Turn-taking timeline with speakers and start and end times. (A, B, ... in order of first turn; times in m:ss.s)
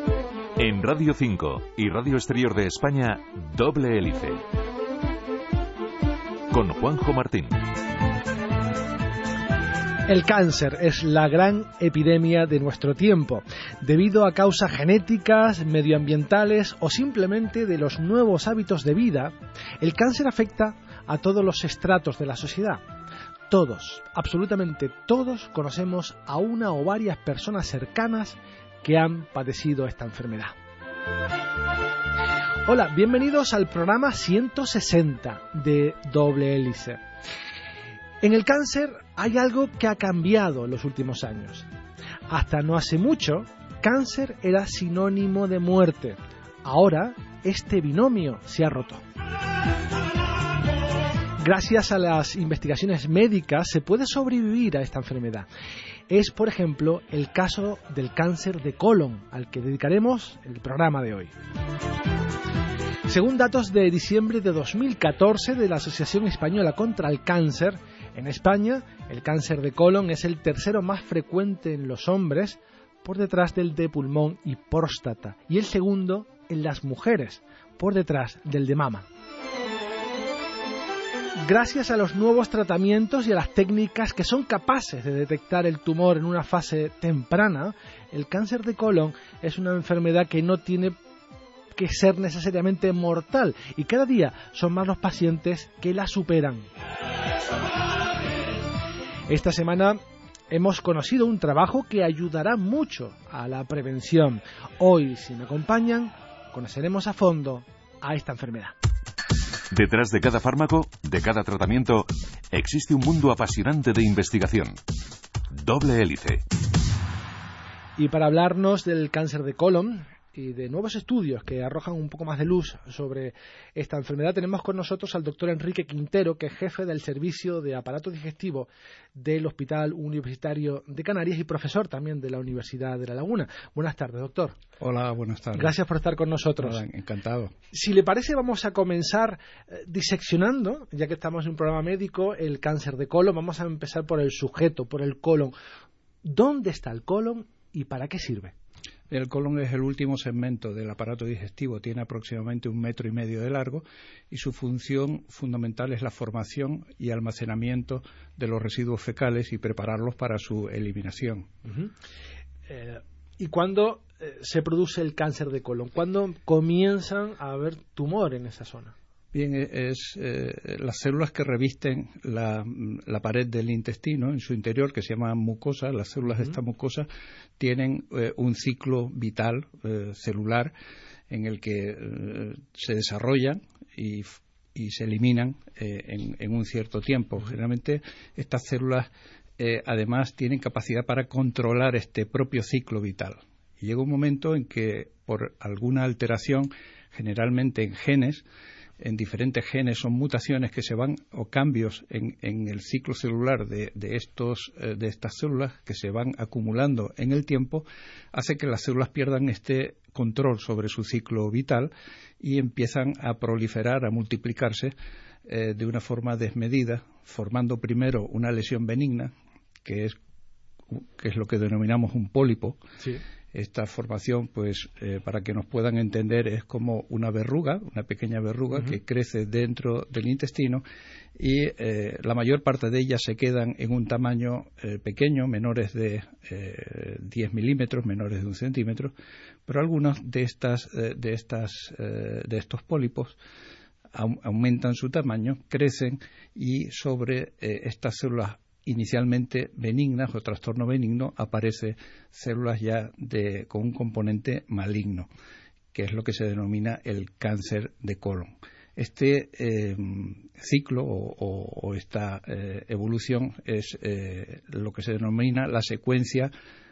0:00.6-0:04.4 A
0:06.5-0:07.6 A
0:10.1-0:22.8 B
0:23.5-0:30.6 B
0:32.7-0:37.0 B
0:38.2-0:41.7 B
0:42.3-0:49.0 B
0:51.4-0:55.5 B
0:56.1-1:01.3 B
1:03.1-1:19.1 B
1:21.4-1:31.0 B
1:31.8-1:36.7 B
1:39.3-1:48.8 B
1:49.7-1:54.8 A
1:55.5-1:56.4 A
1:58.0-2:14.6 B
2:14.8-2:15.8 C
2:15.6-2:16.8 B
2:16.6-2:17.5 C
2:17.7-2:25.6 B
2:26.2-2:28.5 B
2:29.1-2:41.5 C
2:41.7-2:41.9 B
2:42.7-2:49.0 B
2:49.3-2:57.1 C
2:57.6-3:00.7 C
3:01.3-3:18.4 C
3:19.0-3:34.9 C
3:35.5-3:39.3 C
3:39.8-3:40.2 C
3:40.9-3:42.8 C
3:43.5-3:50.8 C
3:51.4-3:59.1 C
3:59.7-4:03.4 C
4:04.1-4:15.3 C
4:15.9-4:26.5 C